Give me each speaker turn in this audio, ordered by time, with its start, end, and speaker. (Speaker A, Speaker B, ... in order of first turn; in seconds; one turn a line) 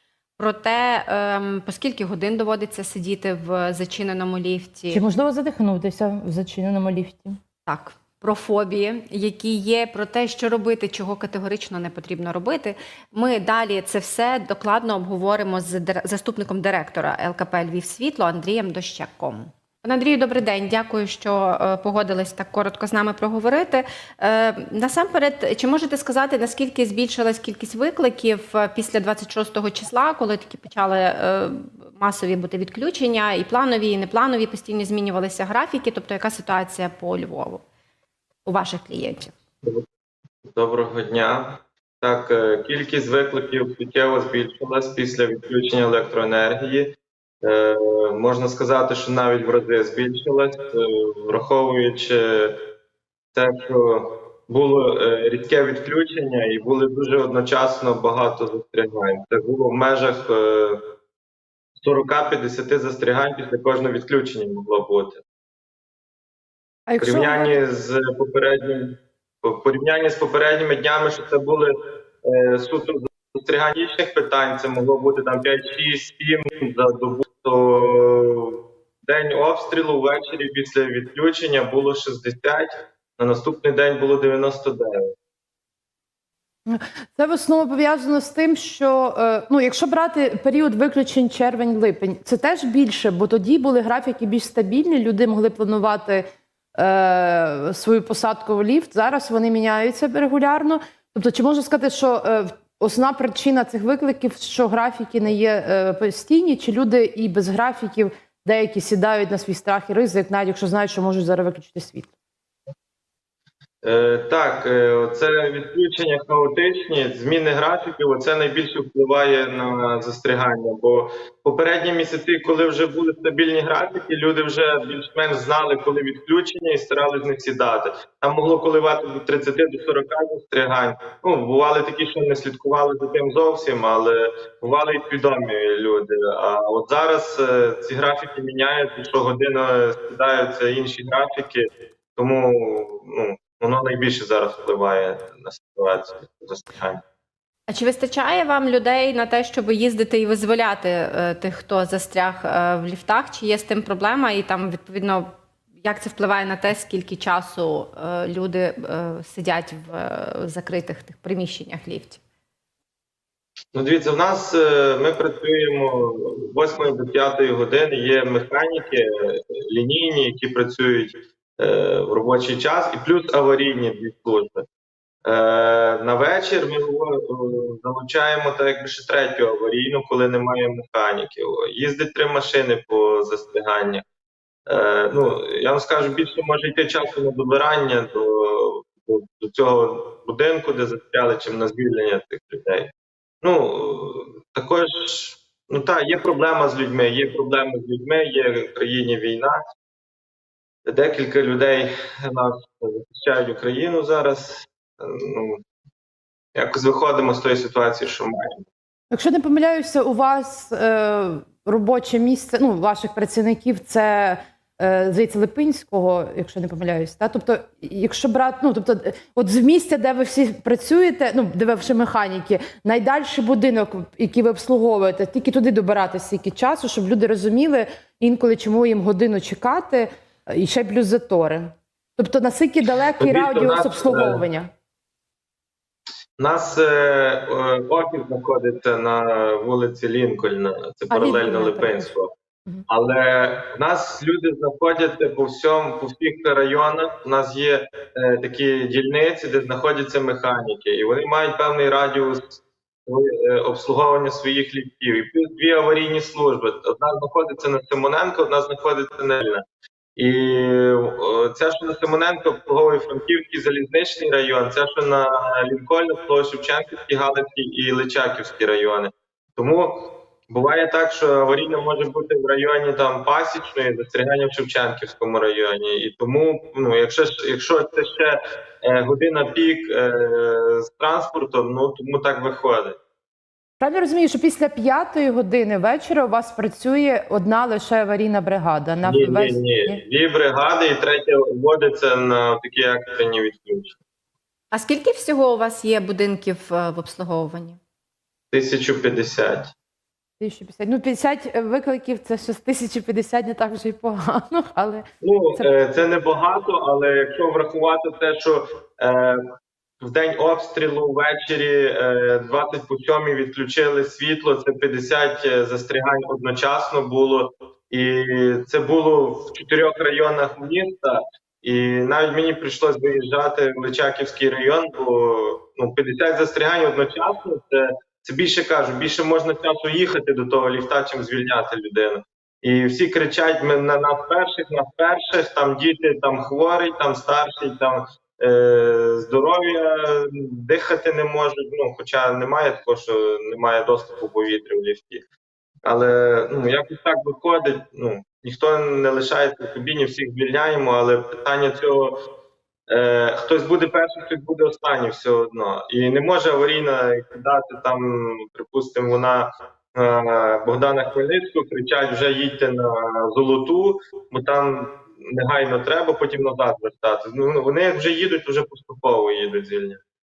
Speaker A: 0.4-5.0
Speaker B: 4.9-7.4
Speaker A: 7.7-37.6
Speaker A: 38.5-39.3
Speaker C: 40.5-52.6
Speaker C: 53.3-60.8
Speaker C: 61.8-65.2
Speaker B: 66.9-67.6
Speaker C: 67.0-71.7
Speaker C: 72.2-85.0
Speaker B: 86.7-112.1
Speaker C: 113.8-147.0
Speaker A: 147.7-155.3
Speaker A: 155.8-162.2
Speaker C: 163.8-174.7
Speaker C: 175.2-184.0
Speaker C: 184.7-192.9
Speaker C: 193.4-199.6
Speaker C: 200.9-205.6
Speaker C: 206.6-208.6
Speaker B: 209.1-234.7
Speaker C: 233.2-234.4
Speaker C: 236.4-242.3
Speaker B: 241.1-242.1
Speaker C: 242.9-252.6
Speaker C: 253.1-259.6
Speaker C: 260.2-283.0
Speaker B: 283.8-290.0
Speaker C: 289.0-293.9
Speaker A: 294.7-297.8
Speaker C: 298.5-299.7
Speaker B: 300.4-305.1
Speaker C: 305.2-309.4
Speaker C: 310.0-345.2
Speaker C: 345.9-352.1
Speaker C: 352.9-370.0